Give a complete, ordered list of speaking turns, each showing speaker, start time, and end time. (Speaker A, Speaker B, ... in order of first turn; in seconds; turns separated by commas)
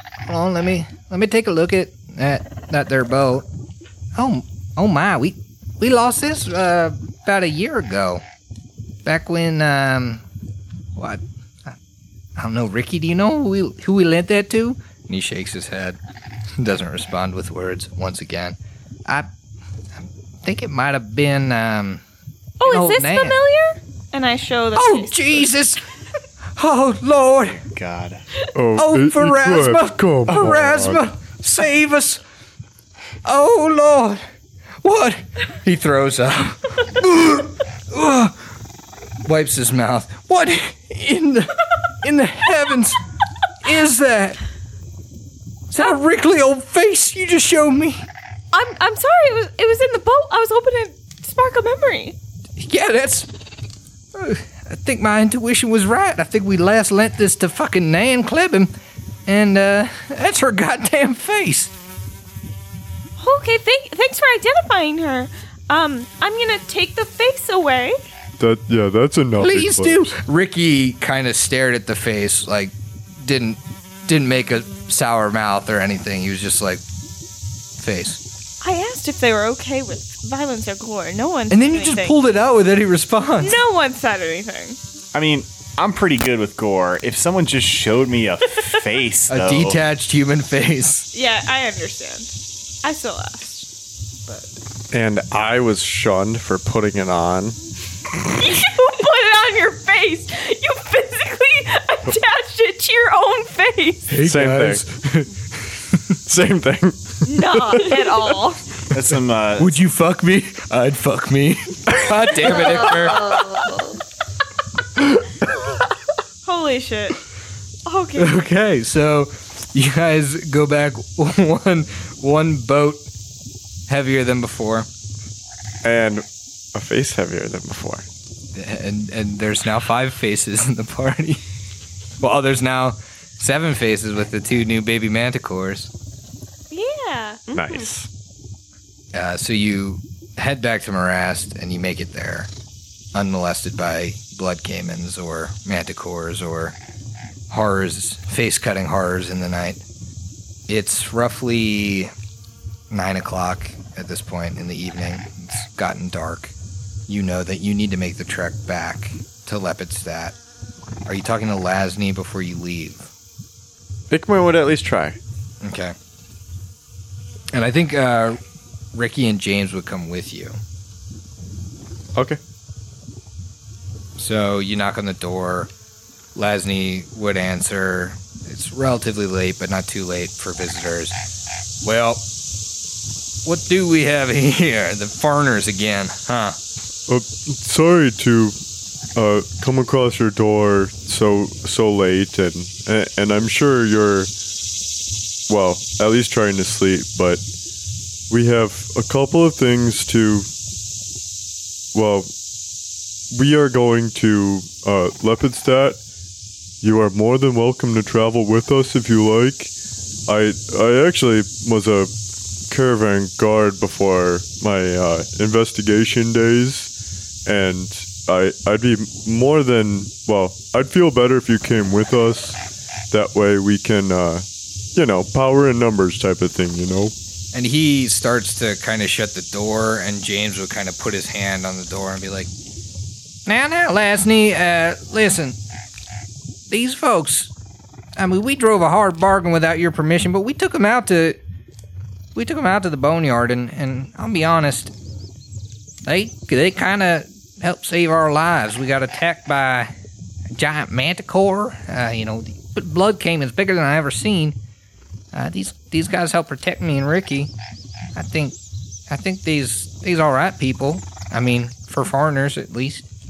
Speaker A: 0.2-3.5, Speaker A: 4.1-8.2, Speaker A: 9.0-10.2, Speaker A: 10.9-11.8, Speaker A: 12.3-16.0, Speaker A: 16.6-19.3, Speaker A: 19.9-22.0, Speaker B: 22.6-25.5, Speaker A: 22.6-23.4, Speaker A: 24.8-25.8, Speaker A: 26.6-27.6, Speaker C: 27.5-28.4, Speaker D: 28.5-31.0, Speaker A: 28.8-32.2, Speaker A: 33.2-34.2, Speaker A: 34.8-38.4, Speaker A: 39.2-43.0, Speaker A: 43.6-44.4, Speaker A: 45.7-48.0, Speaker B: 48.5-52.1, Speaker A: 52.6-53.3, Speaker A: 54.1-58.7, Speaker A: 59.2-61.7, Speaker B: 63.2-68.0, Speaker D: 68.4-70.1, Speaker A: 69.4-76.8, Speaker A: 77.8-78.2, Speaker B: 78.6-82.2, Speaker A: 81.5-83.5, Speaker B: 83.4-84.8, Speaker C: 85.1-89.8, Speaker A: 89.3-91.1, Speaker B: 91.1-93.7, Speaker B: 94.3-94.5, Speaker E: 94.9-97.6, Speaker B: 98.3-104.1, Speaker A: 104.1-105.3, Speaker E: 104.2-104.9, Speaker E: 106.3-107.3, Speaker B: 107.2-108.7, Speaker C: 108.9-109.7, Speaker A: 109.6-113.4, Speaker B: 113.2-113.4, Speaker B: 116.4-117.2, Speaker B: 117.8-118.3, Speaker A: 118.2-123.1, Speaker A: 123.9-124.9, Speaker E: 125.8-128.1, Speaker A: 128.5-131.4, Speaker A: 132.2-135.9, Speaker B: 136.7-137.9, Speaker E: 137.5-138.1, Speaker A: 139.1-142.5, Speaker A: 143.1-146.8, Speaker A: 147.5-149.8, Speaker A: 150.7-152.1, Speaker A: 152.9-156.5, Speaker A: 157.1-160.4, Speaker A: 161.1-163.1, Speaker E: 164.1-165.2, Speaker A: 165.6-165.9, Speaker A: 167.5-168.4, Speaker A: 168.9-170.6, Speaker A: 174.2-175.7, Speaker A: 176.3-181.2, Speaker A: 181.8-182.2, Speaker A: 183.4-186.6, Speaker D: 187.1-188.5, Speaker D: 189.2-194.3, Speaker D: 195.5-197.4, Speaker D: 198.3-200.5, Speaker D: 201.9-202.3, Speaker D: 203.3-206.0, Speaker D: 206.8-209.7, Speaker D: 210.3-212.1, Speaker D: 212.7-216.9, Speaker D: 217.4-222.6, Speaker D: 223.1-227.1, Speaker A: 227.5-232.5, Speaker A: 233.4-235.6, Speaker A: 236.7-237.5, Speaker A: 238.2-241.4, Speaker A: 242.3-244.9, Speaker A: 246.1-249.9, Speaker A: 250.5-254.6, Speaker A: 255.3-257.5, Speaker A: 258.1-258.6, Speaker A: 259.1-263.0